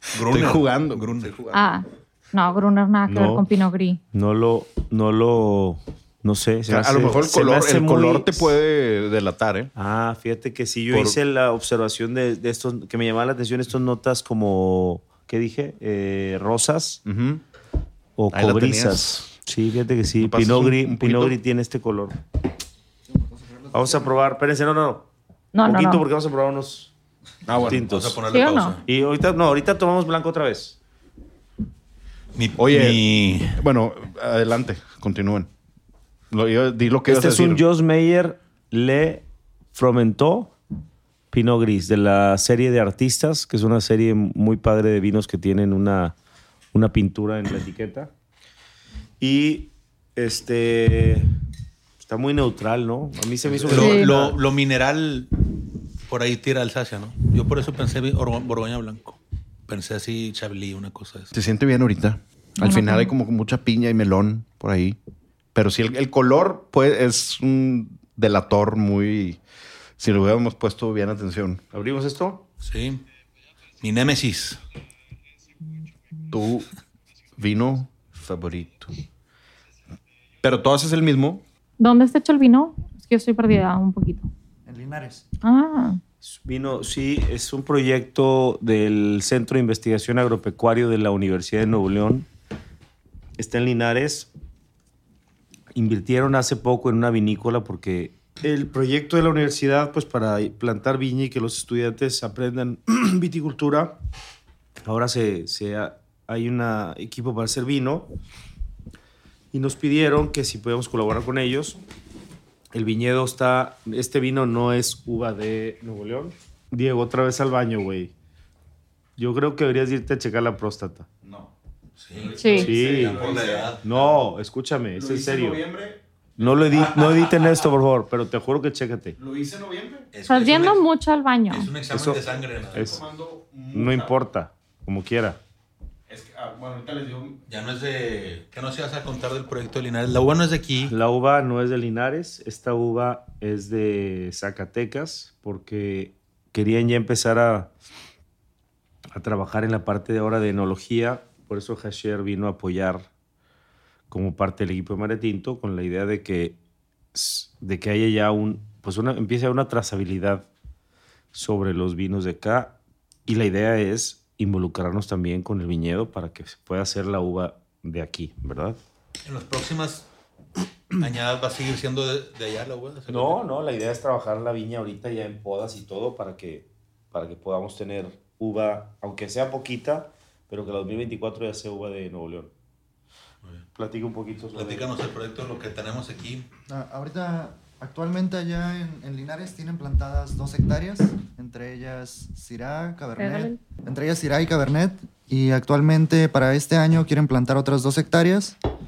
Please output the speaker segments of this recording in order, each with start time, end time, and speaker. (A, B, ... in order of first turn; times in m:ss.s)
0:00.1-0:01.4 A
0:00.1-0:01.7 B
0:01.5-0:04.0 C
0:03.1-0:03.4 D
0:04.1-0:08.6 D
0:06.7-0:09.7 B
0:09.7-0:17.0 D
0:10.9-0:11.2 B
0:17.0-0:17.4 B
0:18.2-0:22.2 D
0:18.3-0:19.3 B
0:20.2-0:21.4 B
0:23.1-0:24.2 E
0:23.7-0:25.1 D
0:25.5-0:26.0 C
0:25.6-0:26.9 D
0:27.4-0:27.9 B
0:27.5-0:28.8 A
0:27.6-0:28.2 D
0:28.3-0:28.8 C
0:28.8-0:30.8 D
0:32.3-0:33.6 A
0:32.6-0:35.5 B
0:36.3-0:37.6 B
0:37.1-0:40.5 D
0:41.3-0:46.1 D
0:46.7-0:48.1 D
0:49.2-0:51.3 D
0:52.0-0:54.4 D
0:53.5-0:54.0 B
0:53.7-0:55.4 A
0:53.7-0:54.1 C
0:56.1-1:01.3 A
1:01.3-1:05.0 B
1:02.6-1:03.1 C
1:05.5-1:09.4 B
1:10.0-1:11.6 B
1:11.7-1:12.4 D
1:12.6-1:13.0 A
1:13.8-1:14.6 A
1:16.3-1:16.7 B
1:17.4-1:18.9 B
1:20.4-1:21.4 B
1:21.8-1:24.3 C
1:24.6-1:25.2 E
1:25.4-1:26.0 C
1:26.2-1:32.3 D
1:33.4-1:34.3 D
1:35.7-1:44.0 D
1:44.8-1:48.1 D
1:49.5-1:51.8 D
1:52.7-1:58.1 D
1:59.2-2:01.1 D
2:01.2-2:01.5 B
2:02.0-2:03.9 A
2:02.2-2:04.0 B
2:02.4-2:02.7 C
2:02.6-2:03.2 D
2:03.8-2:05.6 D
2:04.9-2:07.3 B
2:06.4-2:09.2 D
2:09.2-2:10.1 B
2:10.1-2:10.8 A
2:10.3-2:11.7 C
2:11.5-2:13.0 A
2:11.9-2:12.2 D
2:12.4-2:14.1 B
2:12.7-2:13.0 D
2:13.7-2:15.4 D
2:16.1-2:17.4 B
2:17.5-2:20.9 A
2:20.9-2:27.7 D
2:29.1-2:33.1 D
2:34.1-2:36.6 D
2:37.1-2:40.5 D
2:41.3-2:48.8 D
2:49.2-2:50.1 A
2:50.9-2:53.4 A
2:53.1-3:02.5 D
3:03.7-3:04.9 D
3:04.5-3:06.4 A
3:06.7-3:18.6 E
3:13.2-3:13.6 C